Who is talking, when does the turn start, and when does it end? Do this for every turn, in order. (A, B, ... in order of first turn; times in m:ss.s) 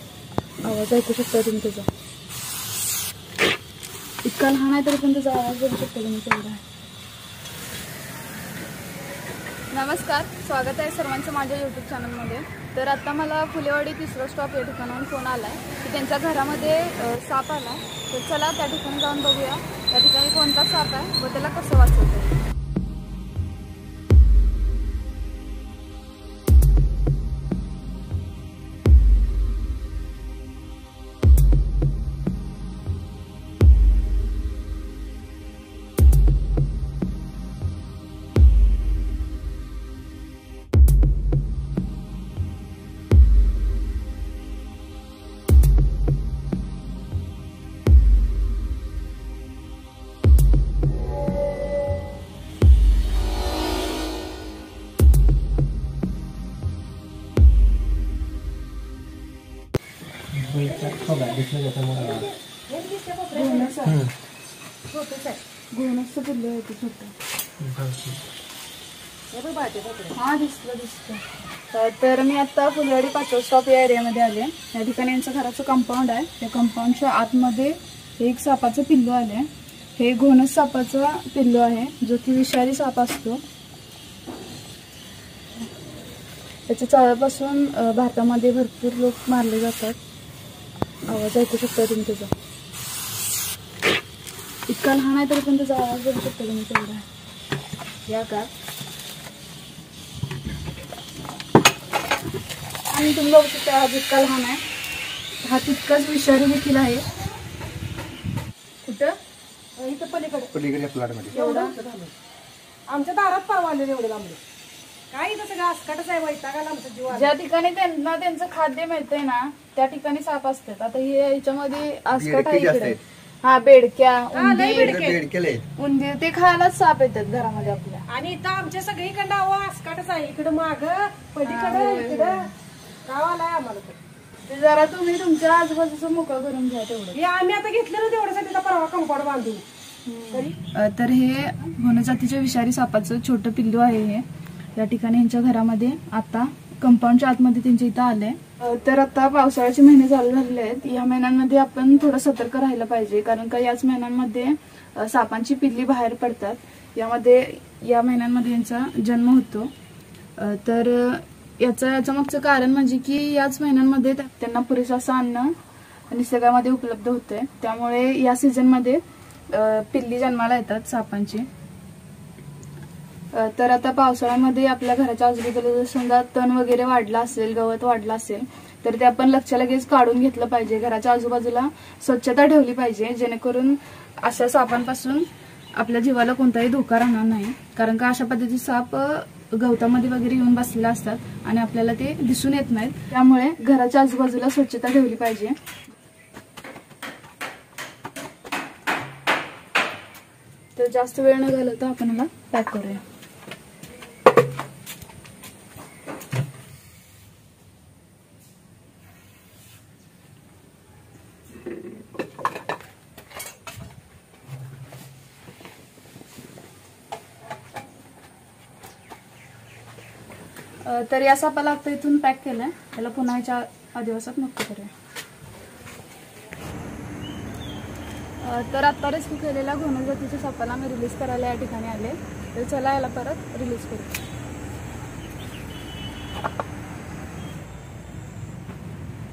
0:00.6-0:01.9 A
0:04.2-0:06.6 A
0:09.7-0:22.4 A
1:00.3-1:02.2 B
1:00.6-1:04.0 C
1:03.3-1:04.0 A
1:04.9-1:05.4 C
1:05.7-1:07.1 A
1:07.6-1:08.1 B
1:09.3-1:10.2 C
1:10.1-1:23.4 A
1:26.7-1:30.0 A
1:31.1-1:32.3 A
1:34.7-1:37.1 A
1:38.0-1:38.5 A
1:42.9-1:44.6 A
1:45.4-1:47.0 A
1:48.8-1:49.2 A
1:49.8-1:50.5 C
1:50.5-1:51.3 B
1:51.3-1:52.1 C
1:51.3-1:51.7 A
1:52.9-1:54.4 C
1:55.1-1:57.3 C
1:57.1-2:05.1 A
2:02.2-2:03.0 B
2:04.3-2:05.2 C
2:04.7-2:05.6 B
2:05.8-2:08.0 A
2:08.0-2:12.5 C
2:11.4-2:12.5 A
2:13.0-2:14.0 C
2:14.5-2:17.2 A
2:17.1-2:19.6 C
2:20.1-2:39.7 A
2:40.4-2:45.6 A
2:46.1-2:51.5 A
2:53.3-3:15.6 A
3:20.8-3:23.0 A
3:40.8-3:44.9 A
3:48.4-3:54.2 A